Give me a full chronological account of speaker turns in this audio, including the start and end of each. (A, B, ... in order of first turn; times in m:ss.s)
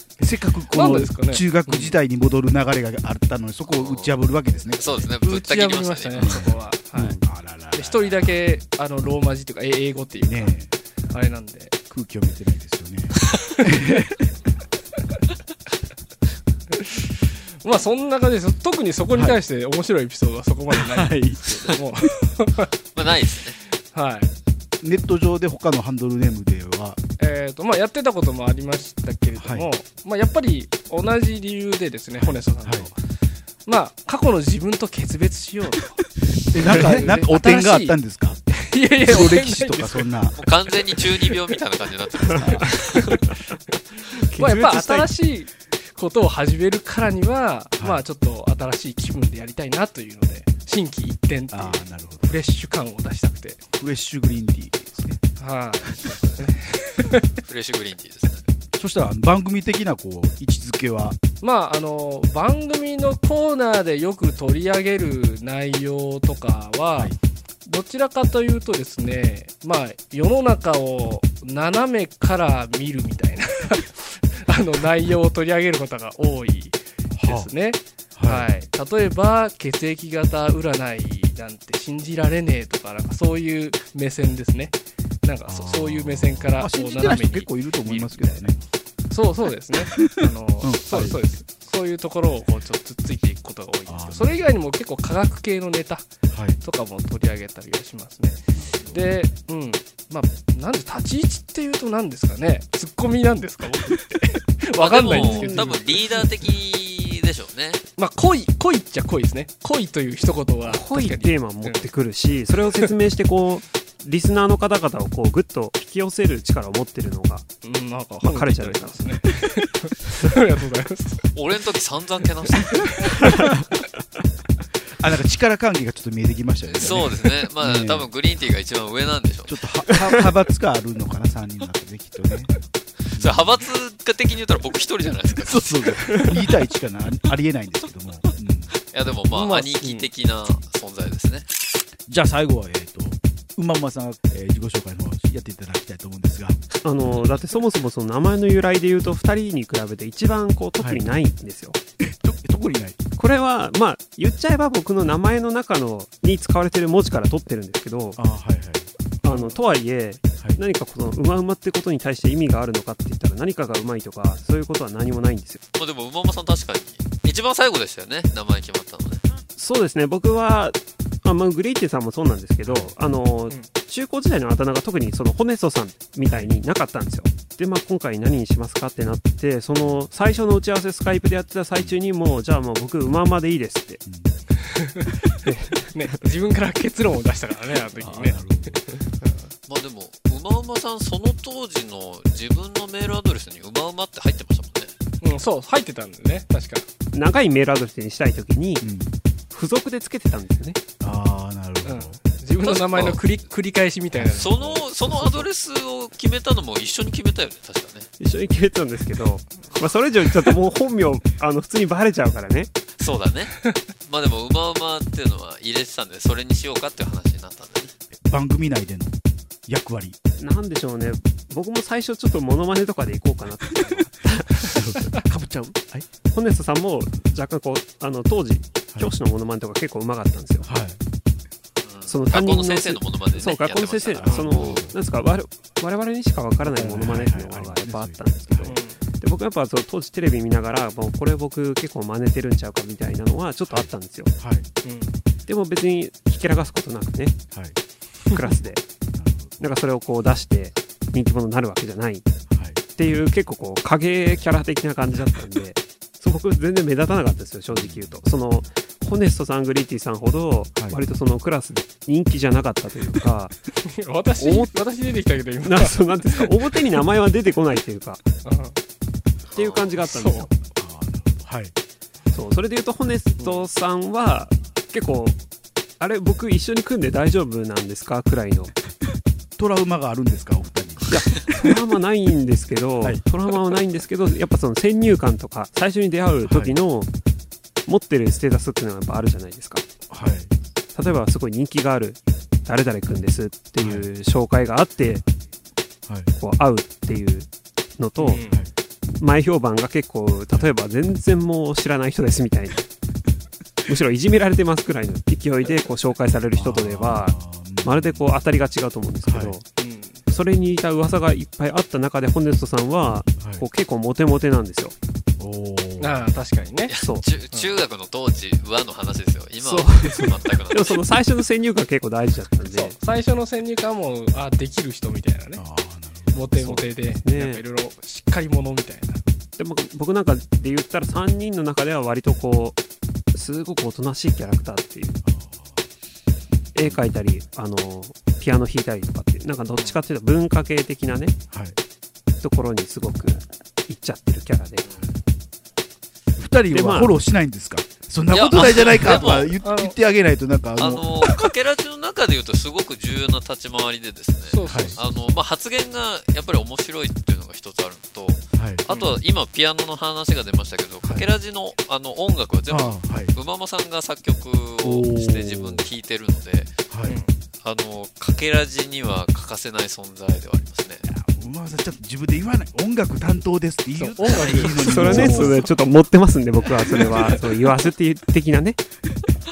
0:00.2-0:05.1 A
0:00.7-0:02.0 B
0:03.7-0:04.2 C
0:04.7-0:06.7 C
0:05.2-0:10.5 B
0:06.2-0:08.4 A
0:10.2-0:10.7 A
0:11.1-0:11.7 B
0:11.9-0:14.3 A
0:16.8-0:17.0 B
0:17.6-0:23.1 B
0:19.1-0:19.4 A
0:20.7-0:21.4 A
0:22.9-0:23.6 C
0:23.6-0:24.3 B
0:24.8-0:27.0 A
0:27.2-0:33.0 B
0:29.4-0:29.7 A
0:32.1-0:32.9 A
0:33.6-0:36.0 B
0:36.5-0:38.4 A
0:36.6-0:38.0 B
0:38.5-0:41.4 B
0:39.0-0:40.4 A
0:40.4-0:42.9 C
0:42.2-0:43.3 D
0:42.3-0:43.3 B
0:43.9-0:53.6 B
0:44.2-0:45.1 D
0:47.8-0:48.0 A
0:51.5-0:52.3 A
0:53.8-0:55.2 A
0:55.4-0:57.3 B
0:57.4-0:58.4 C
0:58.8-1:01.2 A
1:01.4-1:07.1 B
1:07.6-1:28.5 B
1:17.1-1:17.5 A
1:18.2-1:18.5 A
1:25.5-1:28.6 A
1:29.1-1:36.0 B
1:30.6-1:31.2 A
1:33.9-1:34.4 A
1:36.3-1:36.6 A
1:36.6-1:46.2 B
1:38.5-1:39.1 A
1:44.8-1:47.8 C
1:45.1-1:45.7 D
1:48.0-1:51.9 B
1:50.6-1:57.5 D
1:52.5-1:52.9 B
1:57.6-2:03.2 B
1:58.2-1:59.2 D
2:01.3-2:03.2 C
2:05.0-2:08.1 A
2:06.8-2:09.6 C
2:09.4-2:12.5 A
2:13.1-2:16.2 C
2:13.2-2:13.6 A
2:15.4-2:18.8 A
2:18.9-2:21.5 C
2:19.3-2:20.1 B
2:22.1-2:26.6 A
2:26.8-2:31.8 D
2:30.8-2:31.2 A
2:32.0-2:33.0 A
2:33.2-2:38.2 D
2:38.2-2:38.9 A
2:39.2-2:45.6 D
2:45.7-2:49.2 C
2:49.6-3:04.0 D
2:52.6-2:52.9 A
2:56.2-2:56.6 A
2:59.8-3:00.1 A
3:04.0-3:04.3 A
3:04.8-3:05.1 B
3:05.4-3:06.1 D
3:05.8-3:09.5 B
3:07.9-3:08.8 A
3:09.7-3:14.9 C
3:15.2-3:16.8 B
3:17.1-3:18.9 D
3:18.8-3:19.1 A
3:19.5-3:20.8 D
3:21.0-3:22.2 A
3:21.8-3:25.5 B
3:22.6-3:23.3 C
3:24.3-3:28.1 C
3:28.2-3:32.7 D
3:29.6-3:30.5 B
3:33.0-3:37.9 C
3:38.2-3:39.1 A
3:39.7-3:40.2 A
3:40.4-3:44.7 D
3:43.6-3:46.1 A
3:46.3-3:50.7 D
3:50.6-3:51.0 A
3:51.8-3:54.8 C
3:52.0-4:04.3 D
3:54.2-3:55.0 A
3:54.2-3:54.5 B
3:56.7-3:58.8 A
3:58.6-3:59.0 B
4:03.7-4:04.7 A
4:04.8-4:05.1 B
4:05.5-4:07.4 D
4:07.5-4:07.8 A
4:08.3-4:08.8 D
4:09.2-4:09.7 A
4:09.6-4:12.3 D
4:12.5-4:12.8 A
4:12.9-4:23.6 D
4:17.7-4:18.3 A
4:23.8-4:26.9 B
4:24.4-4:24.7 D
4:25.6-4:28.2 D
4:28.4-4:28.8 B
4:29.5-4:30.5 D
4:29.5-4:29.8 C
4:29.9-4:30.5 B
4:30.7-4:31.7 A
4:32.3-4:35.4 D
4:33.4-4:33.7 B
4:36.0-4:38.7 D
4:39.6-4:41.7 A
4:41.0-4:47.1 D
4:46.4-4:46.8 A
4:47.8-4:49.8 D
4:50.1-4:50.5 A
4:50.9-4:55.2 D
4:53.8-4:54.1 A
4:56.0-4:56.3 A
4:56.4-4:58.5 D
4:58.2-4:58.6 B
4:59.1-5:02.8 D
5:03.8-5:09.6 D
5:06.5-5:08.3 A
5:09.2-5:09.6 A
5:09.8-5:10.2 B
5:10.3-5:14.9 D
5:13.4-5:13.6 A
5:15.4-5:16.3 A
5:16.0-5:16.9 B
5:16.9-5:21.2 C
5:16.9-5:17.4 D
5:17.5-5:17.8 B
5:19.6-5:23.0 D
5:22.6-5:25.6 B
5:25.6-5:26.4 A
5:26.3-5:29.2 B
5:26.5-5:27.6 D
5:29.6-5:32.8 D
5:33.3-5:35.2 D
5:35.2-5:35.9 A
5:36.7-5:41.4 D
5:36.8-5:37.0 A
5:41.5-5:41.8 A
5:42.4-5:44.9 D
5:44.8-5:45.1 C
5:46.4-5:51.2 A
5:46.7-5:47.1 D
5:48.3-5:49.6 C
5:49.1-5:50.0 B
5:50.8-6:06.8 C
5:54.5-5:55.0 B
5:54.7-5:55.0 A
5:58.6-5:58.8 A
6:02.7-6:03.3 A
6:04.8-6:05.9 A
6:06.9-6:07.2 A
6:07.0-6:07.3 B
6:07.6-6:11.0 C
6:11.1-6:15.6 A
6:13.9-6:15.7 B
6:14.8-6:18.8 D
6:16.8-6:17.8 B